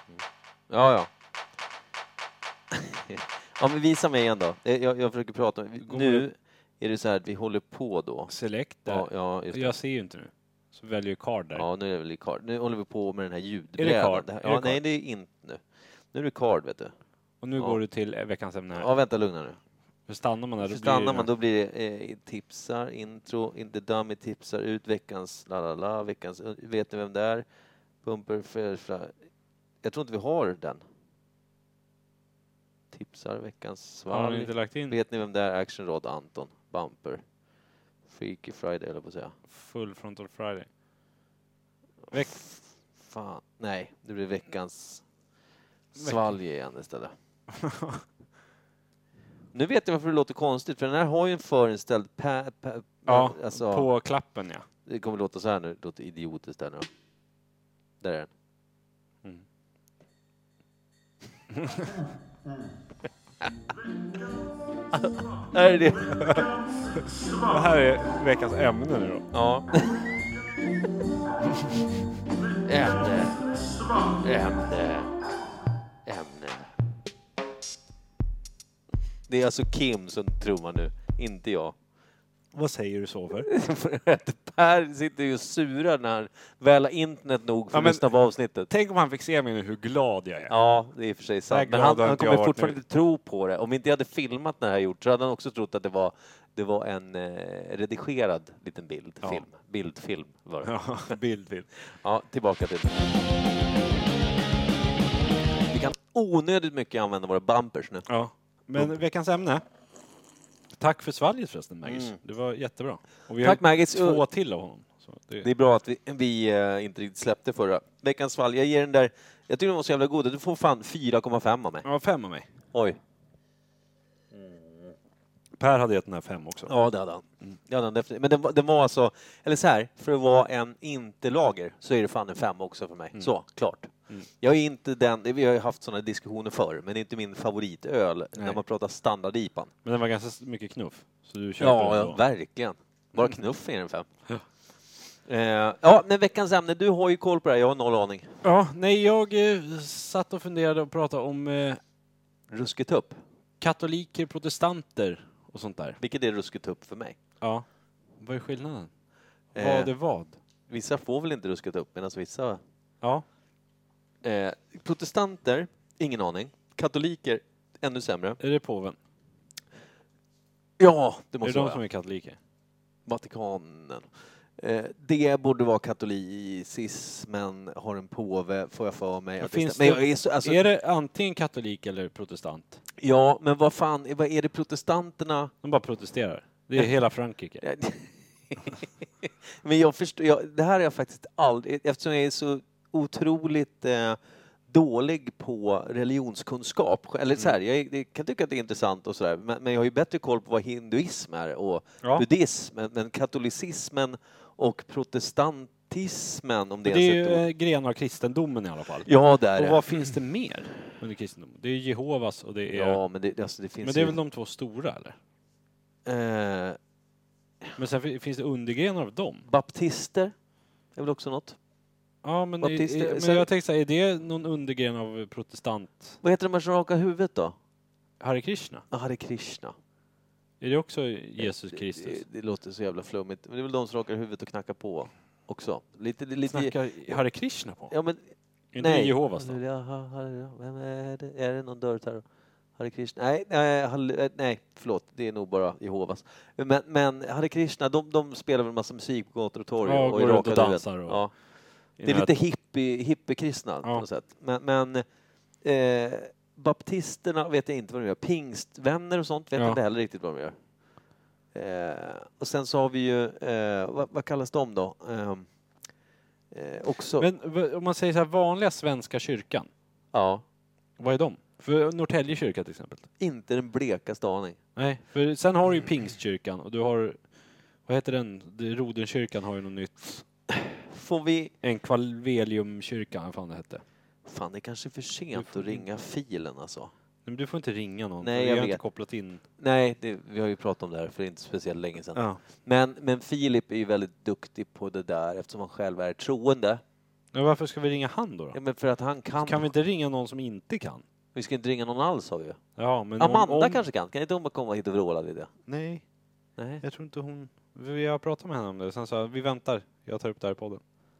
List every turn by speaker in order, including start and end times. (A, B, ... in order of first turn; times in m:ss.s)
0:00.2-0:01.1 A
0:02.7-0:08.3 A
0:05.8-0:06.2 B
0:08.3-0:11.6 B
0:08.8-0:09.8 A
0:11.5-0:16.9 A
0:13.8-0:14.8 B
0:17.4-0:18.9 B
0:18.7-0:19.6 A
0:20.1-0:21.3 B
0:20.6-0:27.4 A
0:28.0-0:29.1 A
0:29.8-0:30.8 A
0:32.9-0:37.2 A
0:34.1-0:35.0 B
0:38.1-0:39.3 A
0:39.5-0:40.7 B
0:42.1-0:45.0 A
0:45.9-0:47.1 A
0:46.0-0:46.4 B
0:47.5-0:48.0 B
0:49.5-0:53.9 A
0:53.0-0:54.6 B
0:54.8-0:56.9 A
0:58.0-0:58.3 A
1:01.5-1:01.9 B
1:04.9-1:06.4 A
1:06.2-1:06.4 B
1:07.4-1:09.3 B
1:09.3-1:09.9 A
1:12.6-1:13.5 A
1:14.1-1:15.1 A
1:16.0-1:16.7 A
1:19.3-1:21.7 A
1:22.5-1:23.5 B
1:23.4-1:28.7 A
1:27.7-1:28.0 B
1:28.7-1:30.6 B
1:30.5-1:41.1 A
1:31.5-1:32.8 B
1:40.6-1:41.7 B
1:41.9-1:43.0 A
1:45.7-1:48.0 A
1:48.1-1:49.6 B
1:50.7-1:55.5 B
1:51.8-1:52.2 A
1:53.4-1:54.2 A
1:55.4-2:01.9 A
2:01.8-2:02.5 B
2:02.7-2:03.0 A
2:05.6-2:06.7 B
2:06.7-2:19.7 A
2:19.8-2:22.2 B
2:21.6-2:24.1 A
2:25.3-2:28.4 A
2:28.4-2:31.8 B
2:32.5-2:33.2 A
2:33.6-2:36.0 B
2:36.0-2:37.2 A
2:38.2-2:38.9 B
2:39.5-2:39.9 A
2:39.5-2:40.4 B
2:40.7-2:42.6 A
2:44.2-2:48.4 A
2:48.4-2:49.0 B
2:50.8-2:51.8 A
2:51.4-2:52.4 B
2:53.0-2:54.1 A
2:54.6-3:00.6 A
2:59.4-3:02.8 B
3:03.0-3:05.5 A
3:05.6-3:07.6 B
3:07.6-3:27.4 A
3:26.8-3:33.0 B
3:29.0-3:29.9 A
3:32.7-3:34.2 A
3:33.8-3:35.2 B
3:36.0-3:36.8 A
3:37.8-3:39.4 B
3:39.4-3:40.3 A
3:40.9-3:41.6 A
3:42.2-3:46.2 B
3:42.6-3:43.5 A
3:46.2-3:47.5 A
3:48.2-3:48.8 B
3:48.9-3:49.7 A
3:50.6-3:52.2 B
3:51.4-3:57.2 A
3:56.5-3:57.9 B
3:57.9-4:02.2 A
3:58.7-3:59.6 B
4:02.8-4:11.3 A
4:09.8-4:11.2 B
4:12.0-4:12.3 B
4:12.0-4:15.0 A
4:15.6-4:20.6 A
4:19.5-4:19.8 B
4:21.5-4:25.5 A
4:26.5-4:27.3 A
4:27.2-4:29.7 B
4:30.1-4:30.4 A
4:31.0-4:33.0 B
4:33.2-4:34.6 A
4:34.8-4:37.2 B
4:37.8-4:40.2 B
4:40.5-4:41.5 A
4:41.6-4:43.8 B
4:44.2-4:46.9 A
4:45.3-4:45.8 B
4:47.2-4:49.4 B
4:48.2-4:48.8 A
4:49.6-4:56.8 A
4:52.1-4:52.4 B
4:57.3-4:58.6 B
4:58.5-4:59.7 A
4:59.4-5:01.0 B
5:01.3-5:02.6 A
5:02.8-5:03.8 B
5:03.2-5:05.5 A
5:05.7-5:06.0 B
5:06.6-5:06.8 A
5:06.8-5:10.8 B